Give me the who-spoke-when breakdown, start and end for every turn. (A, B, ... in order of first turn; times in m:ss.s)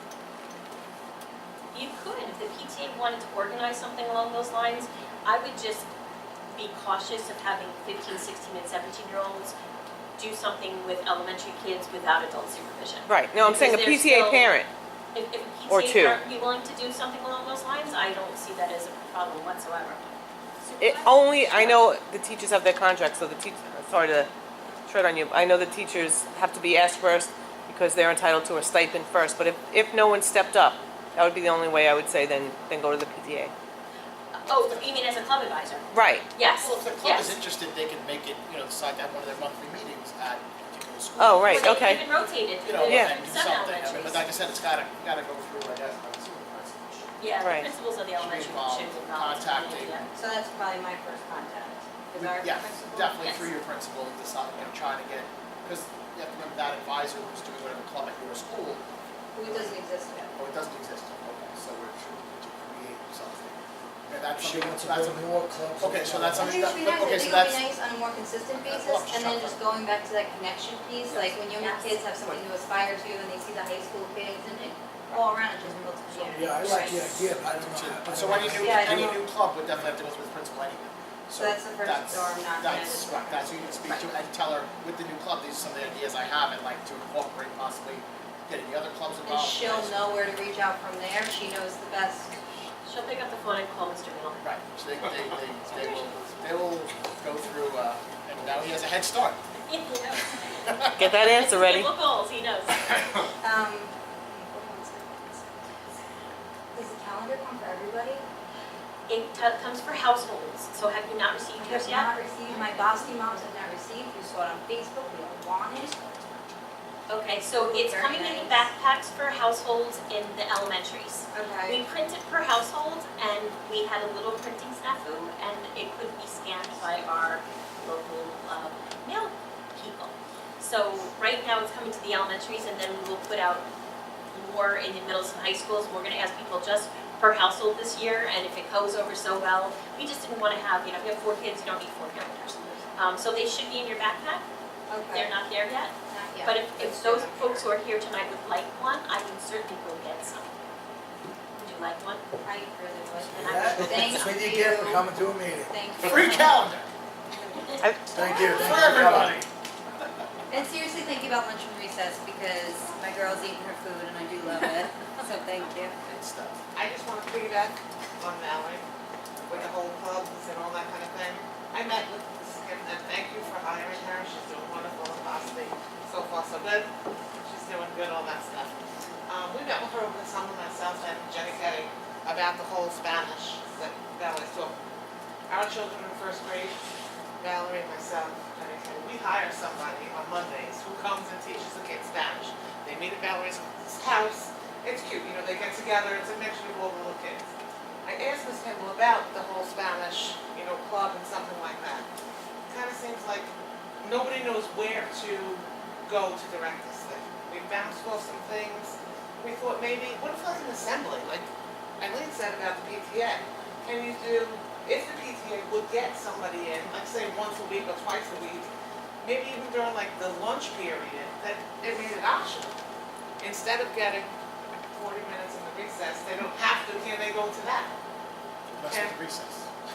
0:01.7-0:05.9 A
0:06.5-0:09.5 A
0:10.2-0:14.5 A
0:13.1-0:14.7 B
0:15.1-0:20.1 A
0:15.7-0:16.2 B
0:20.6-0:21.8 A
0:20.8-0:24.3 B
0:24.9-0:33.5 B
0:34.3-0:37.3 A
0:34.5-0:35.0 C
0:35.9-0:36.3 B
0:36.6-0:42.0 C
0:41.2-0:42.0 B
0:41.4-0:44.3 A
0:42.6-0:47.2 C
0:42.8-0:43.2 B
0:47.2-0:50.0 A
0:47.4-0:47.7 B
0:48.2-0:50.1 C
0:50.2-0:53.4 D
0:52.1-0:58.8 C
0:59.3-1:00.4 D
0:59.4-0:59.8 C
1:00.3-1:07.6 C
1:04.4-1:06.7 E
1:06.4-1:16.7 D
1:08.5-1:09.6 C
1:11.1-1:11.4 C
1:11.5-1:12.1 A
1:16.2-1:19.1 E
1:16.6-1:17.1 A
1:16.7-1:30.1 C
1:18.5-1:19.3 D
1:21.4-1:24.1 D
1:29.2-1:32.4 D
1:32.8-1:34.4 A
1:34.4-1:39.4 C
1:39.6-1:40.7 A
1:40.6-1:41.1 C
1:41.0-1:41.9 B
1:41.3-1:42.8 A
1:43.4-1:45.5 D
1:46.7-1:48.2 D
1:49.1-1:53.0 A
1:51.6-1:56.4 D
1:57.1-2:13.6 A
1:57.6-1:58.6 D
2:01.3-2:01.8 D
2:14.3-2:24.4 A
2:24.9-2:25.4 D
2:25.1-2:30.5 A
2:26.1-2:27.7 D
2:31.6-2:32.2 A
2:32.4-2:35.1 D
2:33.2-2:34.4 A
2:33.4-2:35.8 E
2:35.6-2:36.7 D
2:36.0-2:36.9 C
2:37.3-2:38.9 D
2:37.5-2:37.8 A
2:37.8-2:38.1 B
2:38.1-2:39.4 E
2:38.3-2:39.5 C
2:40.5-2:46.0 D
2:46.0-2:46.6 C
2:46.7-2:48.8 F
2:49.4-2:56.9 F
2:57.4-3:04.7 F
3:05.5-3:06.7 F
3:07.4-3:17.5 F
3:18.0-3:22.0 F
3:22.7-3:23.5 F
3:24.0-3:31.5 F
3:32.0-3:38.7 F
3:39.2-3:42.7 F
3:43.4-3:44.3 F
3:44.9-3:47.9 F
3:48.7-3:49.7 C
3:48.8-3:49.2 F